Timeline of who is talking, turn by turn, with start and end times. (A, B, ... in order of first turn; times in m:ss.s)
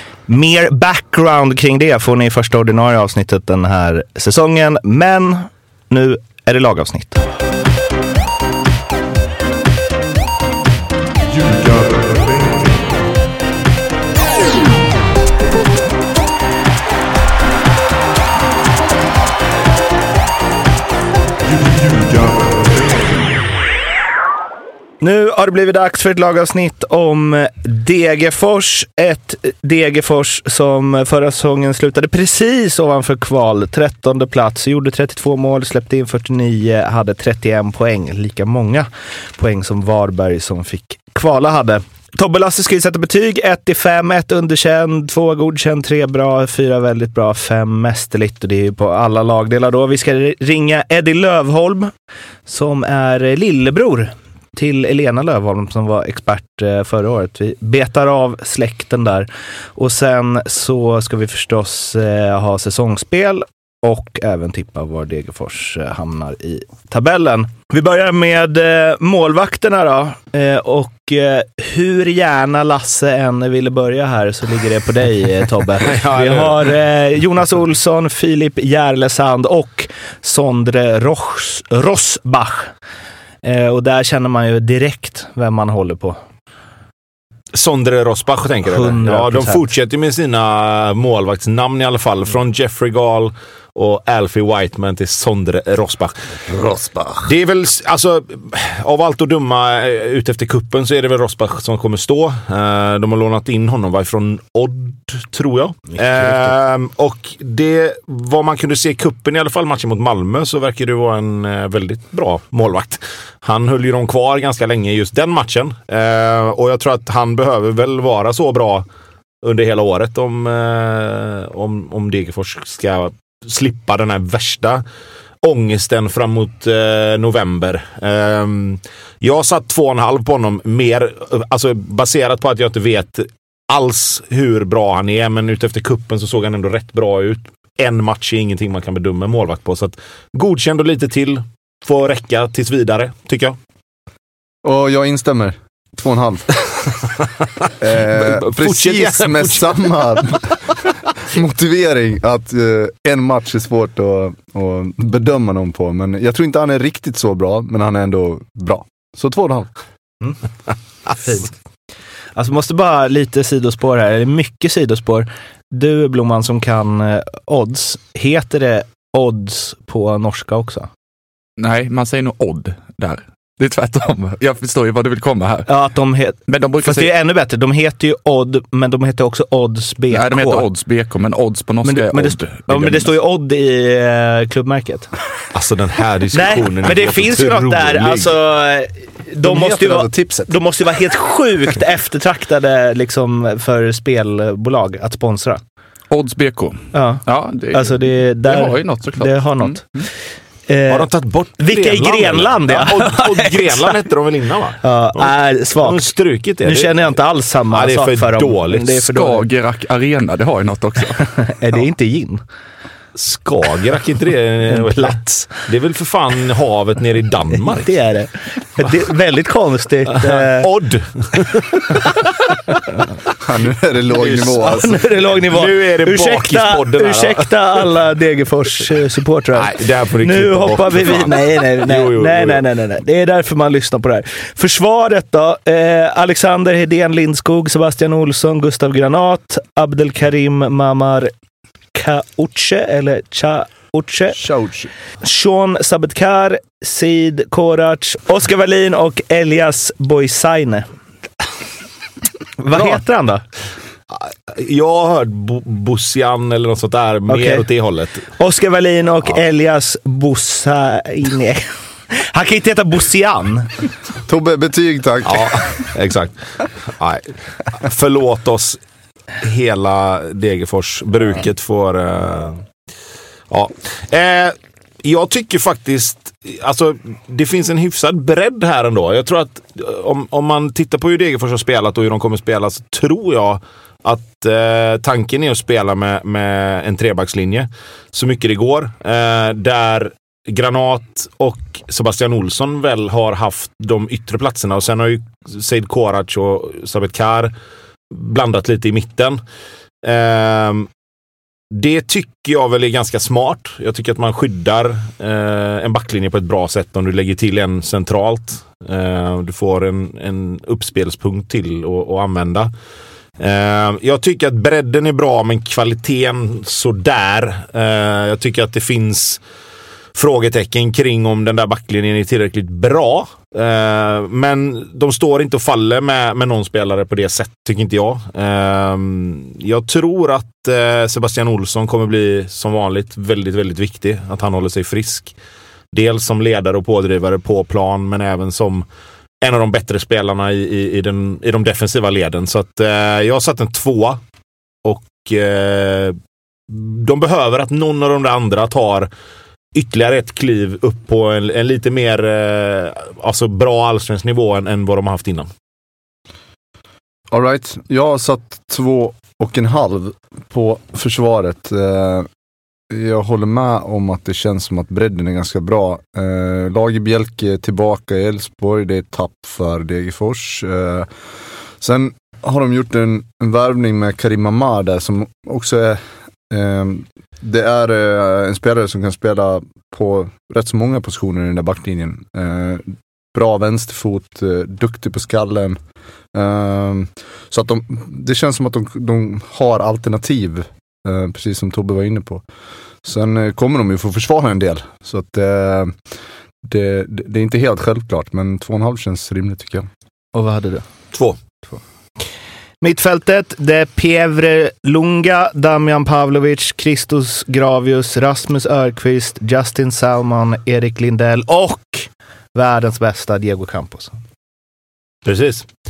0:00.3-0:07.2 A
0:25.0-0:51.9 A
0:52.4-1:22.7 A
1:15.8-1:16.6 B
1:23.4-1:26.2 A
1:27.5-1:36.6 B
1:28.6-1:29.7 A
1:36.6-1:37.2 C
1:37.2-1:58.8 B
1:59.4-2:04.8 B
2:05.4-2:23.6 B
2:24.6-2:26.9 C
2:27.8-2:30.7 C
2:28.1-2:29.8 B
2:31.2-2:39.7 C
2:41.2-2:41.5 A
2:42.4-2:50.9 A
2:51.6-2:55.7 D
2:55.7-3:00.6 A
2:56.5-2:57.1 D
3:00.1-3:03.1 D
3:01.8-3:05.1 A
3:05.5-3:08.3 B
3:06.3-3:15.6 A
3:09.4-3:10.5 C
3:16.1-3:20.1 D
3:16.9-3:19.8 A
3:20.7-3:23.9 A
3:20.9-3:27.0 B
3:24.8-3:26.1 A
3:26.6-3:29.5 A
3:27.7-3:28.9 B
3:29.0-3:31.3 D
3:31.2-3:32.4 A
3:33.1-3:37.9 B
3:34.7-3:35.6 A
3:37.7-3:40.7 A
3:40.2-3:42.6 B
3:43.4-3:44.9 C
3:44.2-3:44.5 B
3:44.5-4:01.3 A
3:45.5-3:47.6 B
3:49.5-3:52.6 B
4:01.9-4:04.5 A
4:04.4-4:04.9 C
4:05.2-4:10.8 A
4:12.6-4:13.4 A
4:14.1-4:18.3 B
4:17.3-4:17.6 A
4:18.4-4:23.7 A
4:24.3-4:25.7 C
4:25.2-4:28.8 B
4:29.4-4:32.6 B
4:33.5-4:57.5 B
4:58.1-4:59.4 B
5:00.0-5:00.9 B
5:01.7-5:12.7 B
5:13.4-5:19.4 B
5:20.2-5:35.3 B
5:35.9-5:38.8 B
5:39.4-5:44.2 B
5:44.8-5:46.2 B
5:46.7-5:49.1 B
5:49.7-5:55.5 B
5:57.3-6:02.3 C
6:02.9-6:11.1 C
6:11.8-6:25.8 C
6:26.3-6:32.4 C
6:33.0-6:35.9 C
6:36.6-6:39.9 C
6:40.3-6:40.8 A
6:41.1-6:41.4 B
6:42.8-6:54.2 A
6:55.2-6:55.7 B